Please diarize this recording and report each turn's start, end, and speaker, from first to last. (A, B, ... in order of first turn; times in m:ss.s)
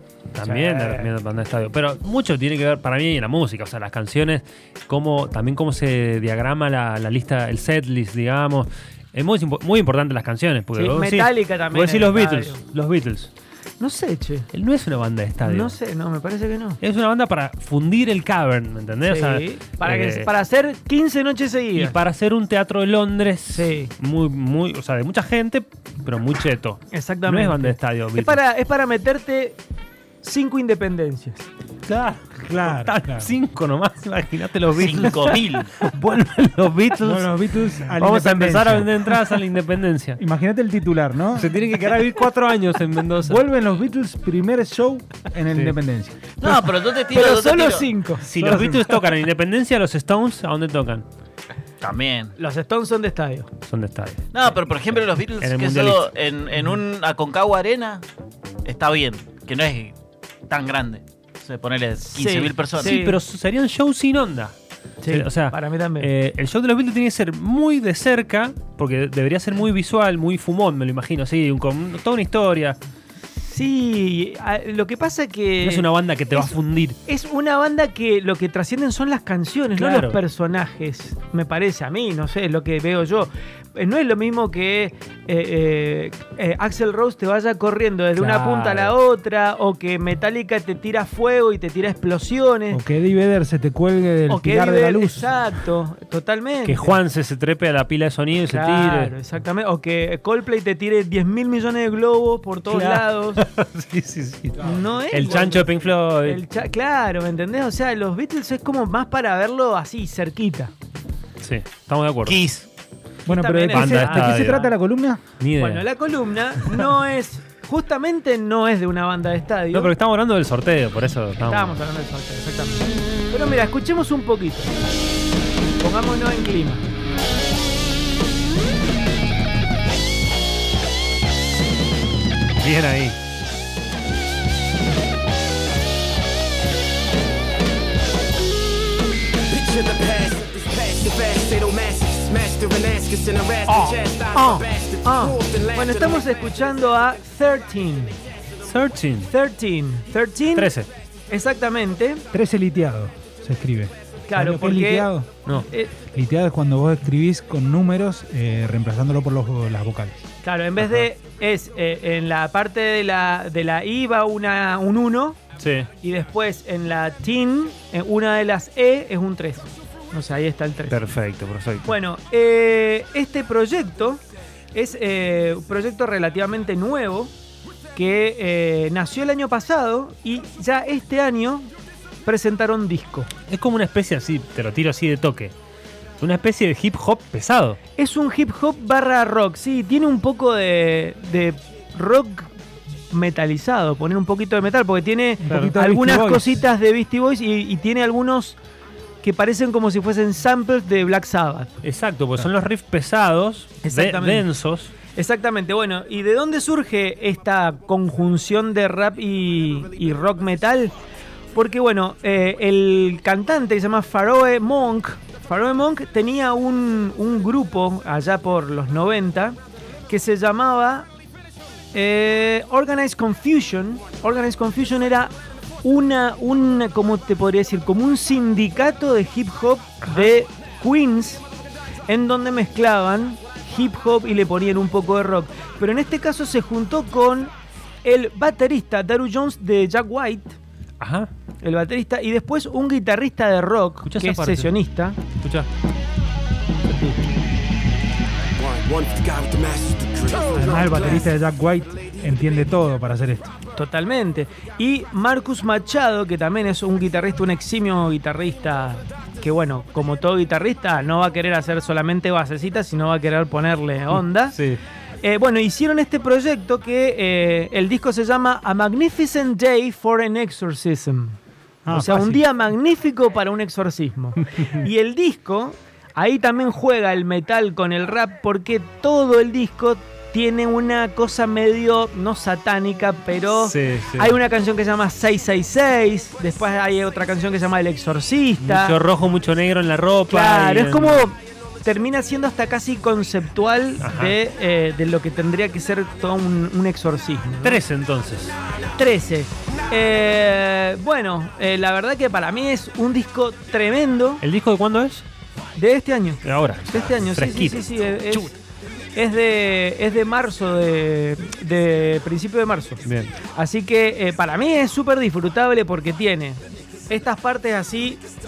0:00.3-0:13.3 A
0:00.4-0:01.1 B
0:10.7-0:12.6 B
0:13.8-0:14.5 B
0:14.5-0:15.8 A
0:15.4-0:16.8 B
0:16.8-0:20.3 A
0:19.0-0:22.0 B
0:21.7-0:28.4 A
0:23.5-0:23.9 B
0:26.9-0:29.6 B
0:30.2-0:31.5 B
0:31.8-0:40.2 A
0:32.4-0:33.3 C
0:34.7-0:35.7 D
0:37.0-0:39.4 C
0:40.2-0:41.5 C
0:41.3-0:43.4 A
0:43.2-0:46.3 C
0:46.4-0:47.9 D
0:47.1-0:48.3 B
0:48.2-0:51.0 A
0:48.3-0:49.0 C
0:51.8-0:52.3 D
0:52.4-0:53.5 B
0:53.7-0:54.2 A
0:54.3-0:58.0 D
0:54.9-0:56.1 A
0:58.6-0:59.9 D
1:00.5-1:03.0 D
1:02.1-1:03.2 B
1:02.7-1:04.5 A
1:05.0-1:06.1 B
1:05.0-1:12.8 A
1:13.4-1:32.8 B
1:15.6-1:17.0 A
1:19.8-1:20.2 A
1:28.2-1:28.9 A
1:32.7-1:35.2 C
1:34.3-1:37.0 B
1:36.6-1:39.1 A
1:38.5-1:43.4 B
1:42.7-1:46.4 A
1:44.6-1:50.7 B
1:51.4-1:52.4 A
1:52.2-1:52.7 D
1:53.2-1:54.7 B
1:53.2-1:55.2 C
1:53.7-1:54.6 A
1:55.4-1:55.8 A
1:55.6-1:59.9 B
1:59.7-2:01.7 A
2:01.4-2:04.7 B
2:05.8-2:06.9 B
2:12.6-2:13.2 A
2:19.5-2:26.3 E
2:23.7-2:28.2 B
2:28.6-2:29.3 A
2:29.3-2:30.7 B
2:30.6-2:30.9 A
2:31.3-2:32.2 B
2:32.3-2:35.3 C
2:34.3-2:35.9 B
2:36.1-2:40.2 C
2:40.4-2:45.4 B
2:40.8-2:41.1 A
2:45.6-2:45.9 A
2:46.0-2:51.0 B
2:50.9-2:51.9 A
2:51.8-2:54.2 B
2:54.7-2:57.3 B
2:57.9-3:01.7 B
3:02.2-3:03.3 B
3:03.5-3:05.5 A
3:06.2-3:07.8 A
3:08.0-3:12.5 B
3:13.1-3:18.6 B
3:15.4-3:16.6 C
3:15.5-3:15.7 A
3:19.2-3:21.7 B
3:21.8-3:24.9 A
3:23.8-3:24.5 B
3:25.1-3:30.9 B
3:31.5-3:41.1 B
3:41.9-3:51.4 B
3:50.0-3:50.3 A
3:52.1-3:57.5 B
3:58.0-4:00.6 B
4:01.0-4:01.3 A
4:01.6-4:05.2 B
4:04.0-4:05.7 A
4:08.6-4:11.2 E
4:10.5-4:13.5 C
4:13.7-4:24.6 B
4:24.5-4:24.8 A
4:25.2-4:31.4 B
4:31.8-4:32.4 C
4:31.9-4:32.3 A
4:31.9-4:49.0 B
4:43.6-4:44.4 A
4:48.6-4:51.3 A
4:50.3-4:57.8 B
4:54.0-4:54.4 A
4:57.6-4:58.6 A
4:58.9-5:04.4 B
5:04.4-5:05.2 A
5:05.8-5:08.5 B
5:06.4-5:07.9 A
5:09.2-5:18.2 B
5:13.0-5:13.3 A